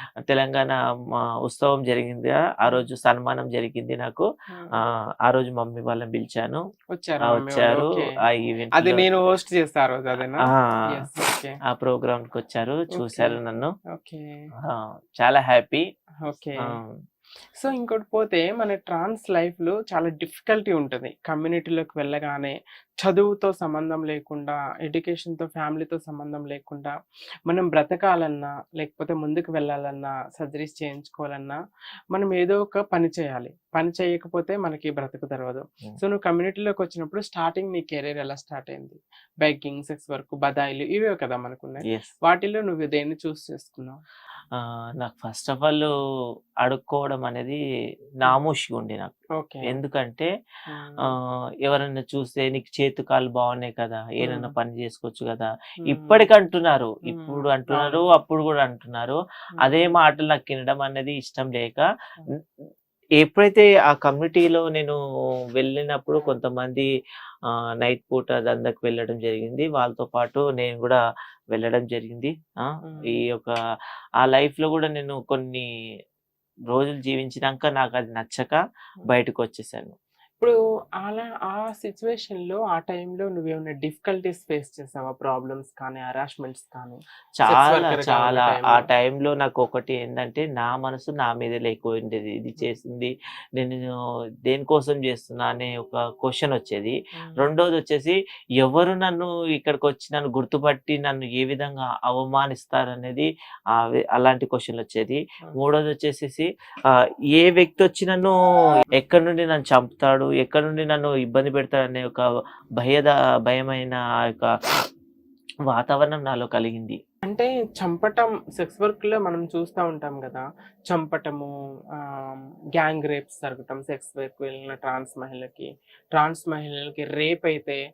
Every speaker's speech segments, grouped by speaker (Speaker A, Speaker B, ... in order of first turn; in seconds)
Speaker A: 0.2-6.6, 7.2-9.0, 10.4-11.0, 11.7-13.7, 14.6-15.8, 16.6-17.0, 44.5-45.9, 46.6-47.6, 48.2-49.1, 49.6-50.3, 51.0-62.4, 63.2-65.0, 65.6-66.9, 67.5-71.0, 71.5-73.5, 74.2-75.7, 76.7-79.9, 87.4-108.3, 108.9-112.2, 112.8-114.5, 115.7-117.0
Speaker B: 4.5-4.8, 6.9-8.2, 8.8-11.6, 12.9-13.4, 13.9-14.3, 16.2-16.8, 17.6-26.9, 27.5-31.6, 32.1-44.0, 49.4-49.7, 50.7-51.1, 54.2-54.5, 55.9-56.2, 57.1-58.0, 59.6-59.9, 72.8-73.2, 80.4-88.8, 97.2-97.5, 117.2-127.8